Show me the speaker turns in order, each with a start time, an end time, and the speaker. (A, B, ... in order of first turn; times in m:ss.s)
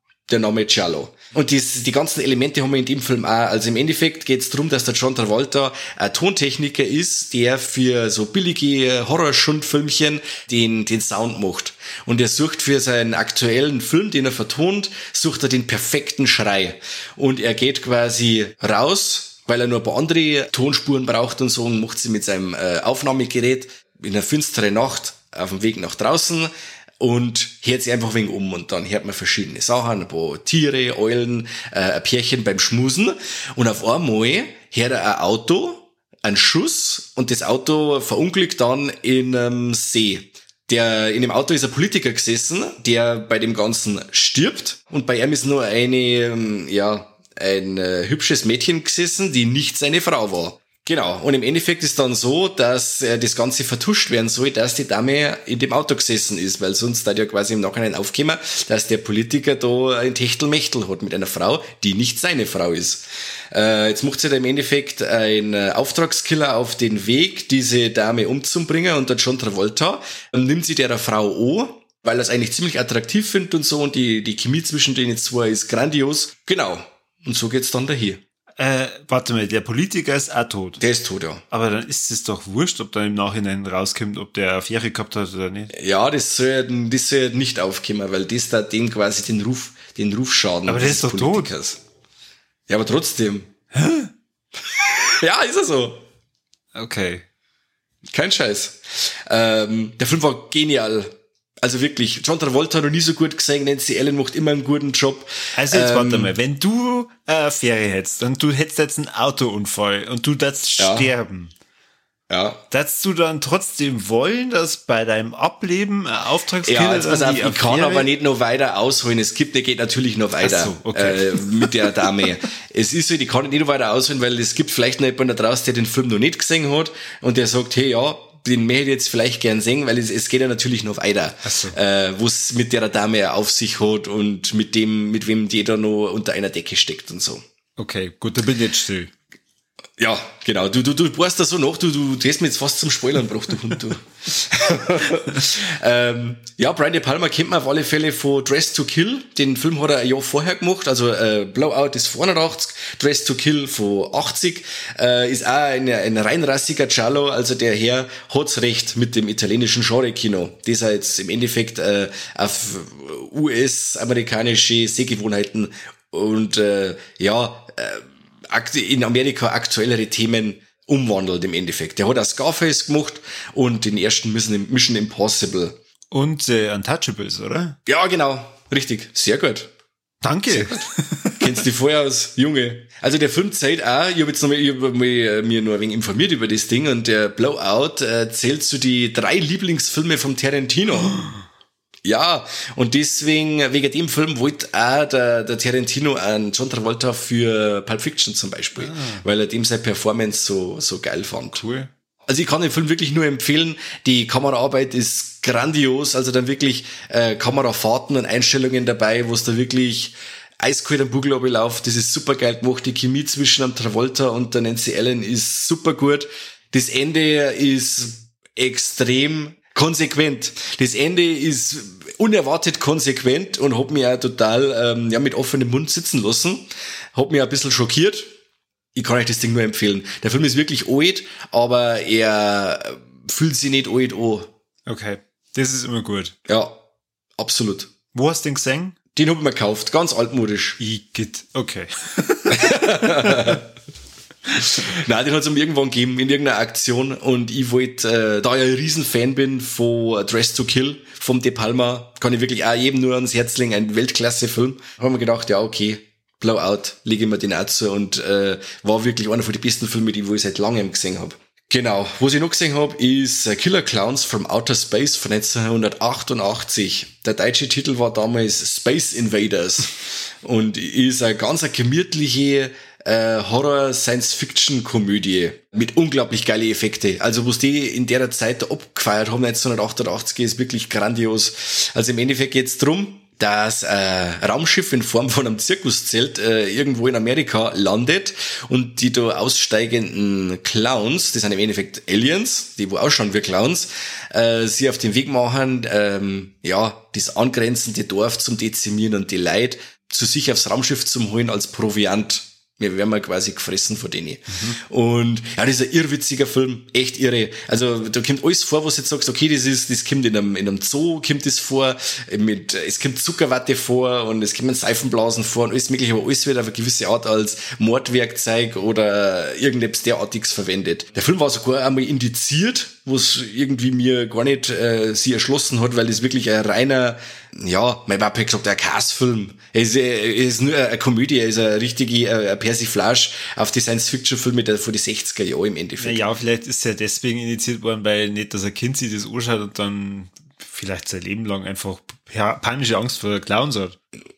0:00.3-1:18.2 A
1:18.6-1:20.8 B
1:20.8-1:21.4 A
1:21.5-1:25.7 B
1:25.7-1:31.8 A
1:30.7-1:31.5 B
1:32.7-1:33.5 A
1:33.7-1:34.1 B
1:35.1-1:36.0 A
1:36.7-1:37.2 B
1:38.1-1:46.3 A
1:45.6-1:51.5 B
1:50.8-1:51.1 A
1:52.3-1:52.6 A
1:52.7-1:58.1 B
1:56.6-2:17.4 A
2:00.4-2:02.0 B
2:11.4-2:11.8 B
2:17.8-2:19.1 B
2:20.0-2:55.8 A
2:56.1-2:57.8 B
2:57.9-2:59.7 A
3:00.2-3:01.6 B
3:00.5-3:00.8 A
3:01.4-3:11.2 A
3:12.0-3:21.6 A
3:18.8-3:19.2 B
3:21.6-3:21.9 B
3:22.3-3:48.3 A
3:49.0-3:54.5 A
3:54.9-3:56.3 B
3:56.4-3:56.8 A
3:57.4-3:57.9 A
3:58.1-3:59.0 B
3:59.1-4:00.8 A
4:00.8-4:03.6 B
4:02.5-4:03.6 A
4:04.5-4:04.9 B
4:04.6-5:36.2 A
5:04.5-5:04.8 B
5:36.0-5:44.0 B